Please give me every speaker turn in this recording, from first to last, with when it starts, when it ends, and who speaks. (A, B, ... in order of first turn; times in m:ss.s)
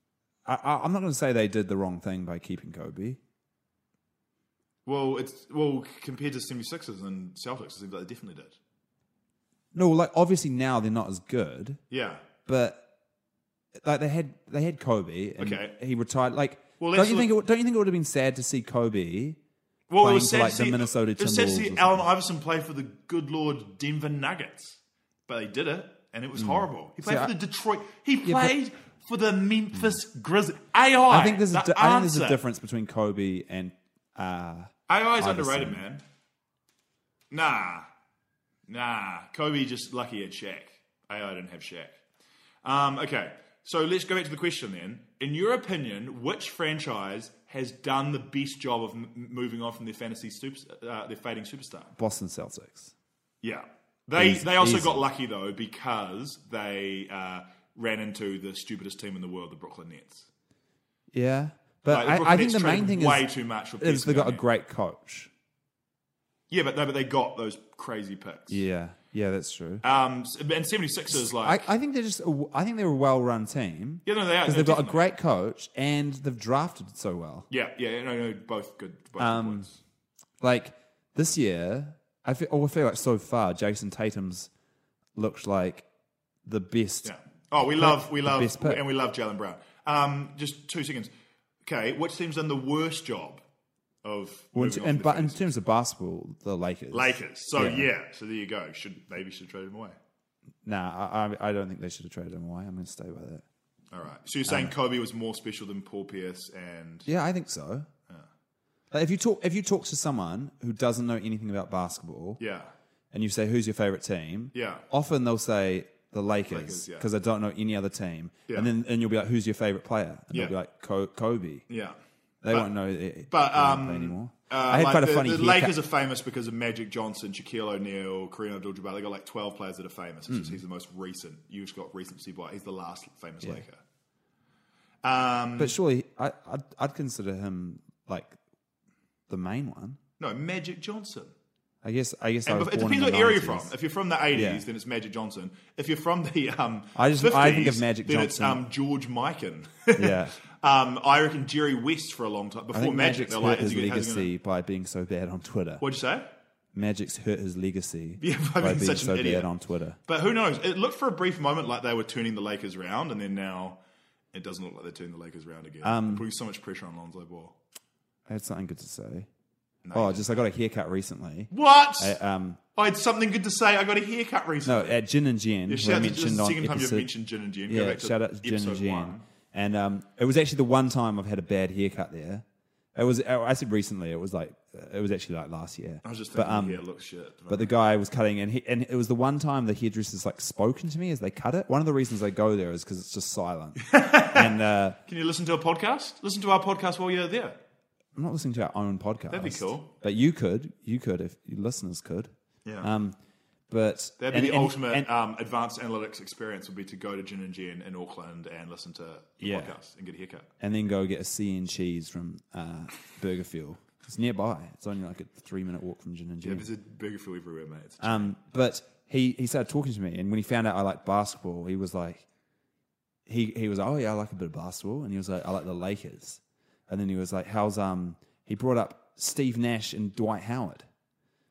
0:00.4-0:03.2 A
0:04.8-0:08.6 B
0:09.7-0:11.8 A
0:11.9-0:12.2 B
0:12.4-0:12.8 A
0:13.8-0:19.4 A
0:15.4-0:15.8 B
0:16.8-0:17.3 B
0:19.9-0:32.4 B
0:20.0-0:22.1 A
0:26.4-0:27.3 A
0:28.2-0:28.6 A
0:31.1-0:35.8 A
0:34.9-0:36.0 B
0:37.3-0:37.9 B
0:38.7-0:42.0 B
0:42.6-0:51.9 B
0:52.0-0:52.9 A
0:53.4-1:00.3 B
0:54.2-0:55.0 A
1:01.1-1:05.3 A
1:01.9-1:04.4 B
1:06.5-1:08.6 B
1:08.5-1:09.8 A
1:09.8-1:11.7 B
1:11.1-1:17.5 A
1:14.0-1:15.0 B
1:17.5-1:19.7 B
1:19.2-1:19.7 A
1:20.4-1:24.5 A
1:25.2-1:25.8 A
1:26.4-1:28.8 A
1:27.0-1:31.1 B
1:31.6-1:33.4 B
1:34.0-1:35.5 B
1:34.5-1:37.9 A
1:36.9-1:40.0 B
1:40.6-1:43.4 A
1:43.9-1:47.1 B
1:44.5-1:44.7 A
1:47.0-1:47.9 A
1:48.9-1:52.4 A
1:52.4-1:52.7 B
1:53.1-2:01.6 A
1:54.5-1:54.8 B
1:56.5-1:57.1 B
2:01.7-2:02.0 B
2:02.4-2:05.8 A
2:03.3-2:13.8 B
2:10.3-2:10.6 A
2:15.0-2:15.8 B
2:15.6-2:18.4 A
2:19.3-2:20.0 A
2:20.2-2:21.3 B
2:21.8-2:23.7 A
2:22.4-2:34.3 B
2:24.3-2:24.6 A
2:26.9-2:28.6 A
2:29.9-2:30.3 A
2:32.7-2:35.8 A
2:35.8-2:36.3 B
2:36.7-2:40.0 A
2:38.2-2:39.5 B
2:40.1-2:43.8 B
2:44.3-2:47.6 B
2:45.8-2:46.2 A
2:48.3-2:49.3 A
2:49.8-2:50.3 B
2:49.9-2:52.6 A
2:51.5-2:52.2 B
2:52.7-2:55.0 B
2:54.6-2:57.1 A
2:55.7-2:59.2 B
2:57.7-3:06.8 A
3:06.0-3:07.7 B
3:07.5-3:15.0 A
3:13.8-3:17.6 B
3:18.1-3:23.2 A
3:19.3-3:19.9 B
3:22.6-3:22.9 B
3:23.7-3:25.1 A
3:24.2-3:30.5 B
3:29.4-3:29.8 A
3:30.6-3:36.7 A
3:36.4-3:38.3 B
3:38.0-3:42.2 A
3:43.2-3:50.9 A